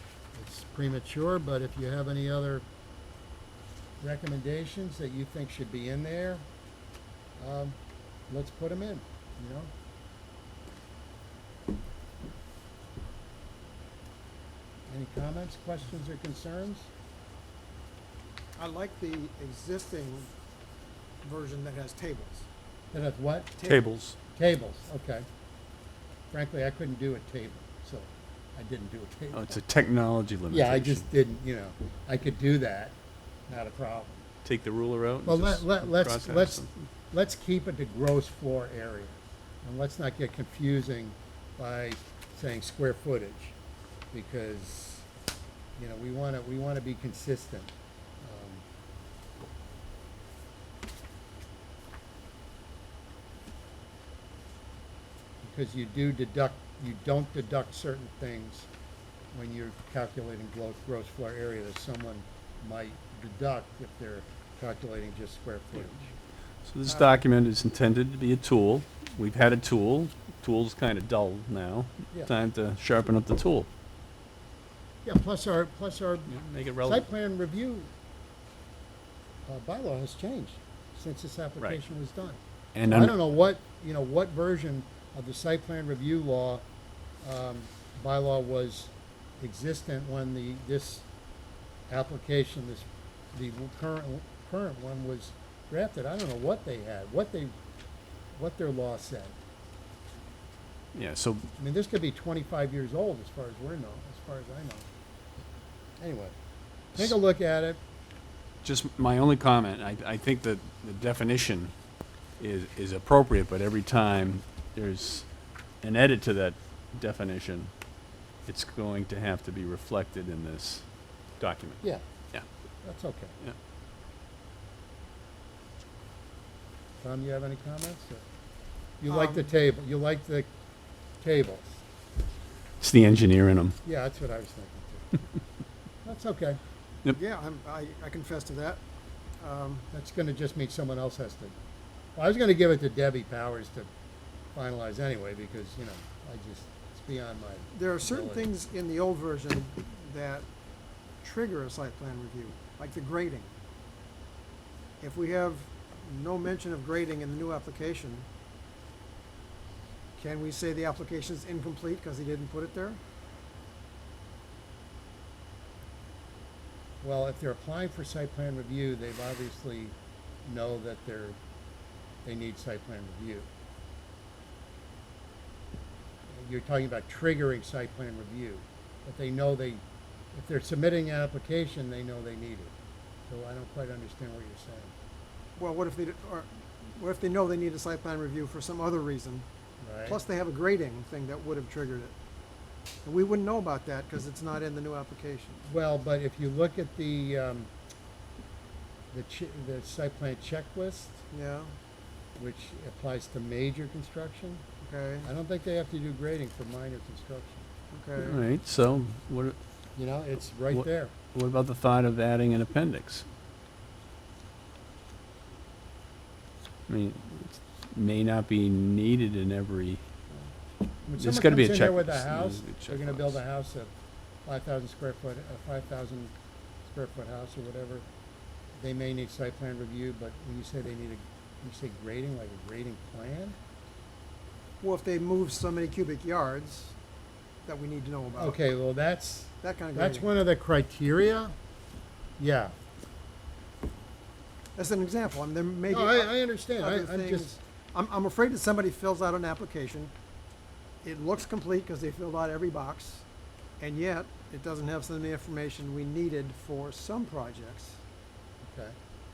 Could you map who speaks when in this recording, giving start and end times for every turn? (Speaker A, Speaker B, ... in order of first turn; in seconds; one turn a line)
Speaker A: 0.3-2.6
Speaker A: 4.0-6.5
Speaker A: 7.4-7.8
Speaker A: 8.3-9.7
Speaker A: 14.9-16.9
Speaker B: 18.6-20.3
Speaker B: 21.2-22.5
Speaker A: 22.9-23.6
Speaker B: 23.6-23.9
Speaker C: 23.6-24.2
Speaker A: 24.4-25.2
Speaker A: 26.3-29.6
Speaker C: 29.3-31.0
Speaker A: 30.5-33.0
Speaker A: 33.5-34.2
Speaker C: 34.4-36.7
Speaker A: 35.2-43.5
Speaker A: 44.1-45.1
Speaker A: 45.8-48.6
Speaker A: 55.4-58.7
Speaker A: 59.3-66.1
Speaker C: 66.6-73.7
Speaker B: 66.8-67.2
Speaker A: 75.0-77.9
Speaker C: 76.3-77.1
Speaker A: 79.5-86.6
Speaker C: 82.7-83.1
Speaker A: 87.2-91.1
Speaker A: 91.9-97.5
Speaker A: 98.3-99.3
Speaker C: 100.9-101.5
Speaker A: 101.6-104.9
Speaker A: 106.0-106.3
Speaker A: 106.9-107.8
Speaker C: 108.6-111.7
Speaker C: 112.4-115.3
Speaker C: 115.8-117.7
Speaker C: 118.5-120.8
Speaker C: 121.4-121.8
Speaker A: 122.8-123.4
Speaker A: 127.0-128.2
Speaker A: 129.0-130.5
Speaker B: 129.1-129.5
Speaker A: 131.2-131.8
Speaker C: 132.8-133.8
Speaker A: 133.8-135.2
Speaker A: 136.0-136.6
Speaker B: 137.1-138.8
Speaker B: 139.4-139.9
Speaker A: 139.9-141.5
Speaker A: 142.2-143.9
Speaker A: 144.5-148.5
Speaker B: 147.7-150.4
Speaker B: 151.2-153.5
Speaker B: 155.0-158.3
Speaker B: 160.2-163.0
Speaker A: 167.0-171.4
Speaker A: 172.2-173.5
Speaker A: 176.3-182.7
Speaker A: 183.3-184.9
Speaker B: 185.6-189.4
Speaker A: 189.8-190.2
Speaker B: 190.1-192.1
Speaker B: 193.0-195.6
Speaker A: 195.6-197.7
Speaker A: 199.1-201.2
Speaker B: 201.3-201.7
Speaker A: 202.4-204.6
Speaker B: 204.8-205.3
Speaker A: 205.2-207.7
Speaker B: 207.9-208.4
Speaker C: 208.2-209.6
Speaker A: 209.9-211.1
Speaker C: 210.7-213.2
Speaker C: 216.9-220.0
Speaker A: 221.1-223.9
Speaker C: 221.2-223.4
Speaker A: 224.4-226.3
Speaker A: 226.8-228.1
Speaker A: 228.8-233.6
Speaker B: 234.8-236.9
Speaker B: 237.6-238.6
Speaker A: 238.3-241.5
Speaker B: 239.6-240.3
Speaker A: 242.4-242.7
Speaker B: 244.8-250.1
Speaker A: 245.9-247.5
Speaker B: 251.0-253.2
Speaker B: 253.8-258.0
Speaker A: 258.6-258.9